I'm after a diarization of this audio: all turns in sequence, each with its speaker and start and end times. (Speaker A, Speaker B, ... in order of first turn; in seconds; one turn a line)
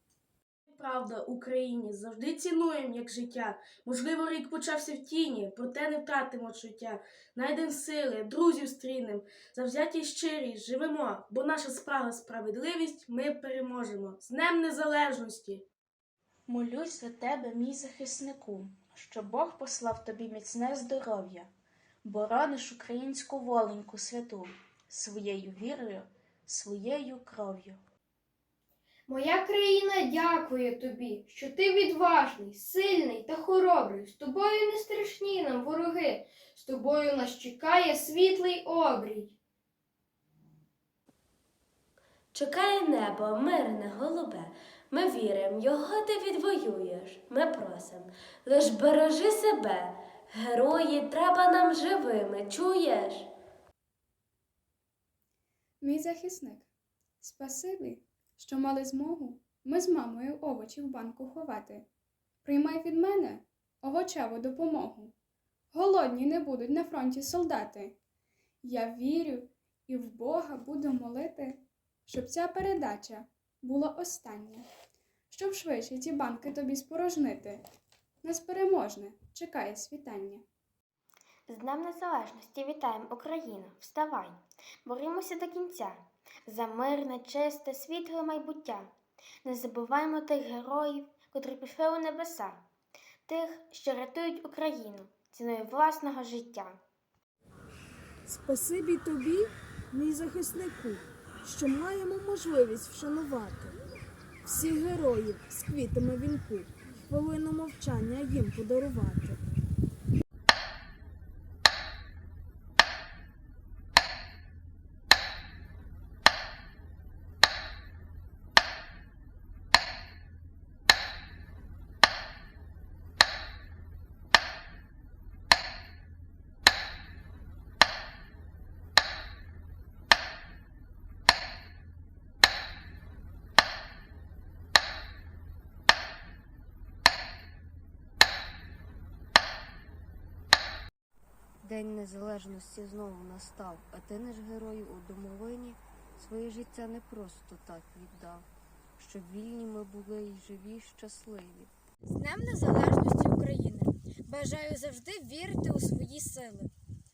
Speaker A: 0.7-15.6
Speaker B: 16.5-21.5
Speaker B: 22.0-27.8
Speaker C: 29.1-39.3
Speaker D: 42.3-53.3
Speaker E: 55.8-56.7
Speaker E: 57.2-61.9
Speaker E: 62.4-65.1
Speaker E: 65.7-67.9
Speaker E: 68.6-74.7
Speaker E: 75.3-77.6
Speaker E: 78.2-80.4
Speaker F: 81.5-88.9
Speaker F: 89.4-92.6
Speaker F: 93.2-96.8
Speaker G: 98.3-103.7
Speaker G: 104.4-109.4
Speaker H: 141.6-148.5
Speaker H: 149.0-151.7
Speaker I: 152.1-156.7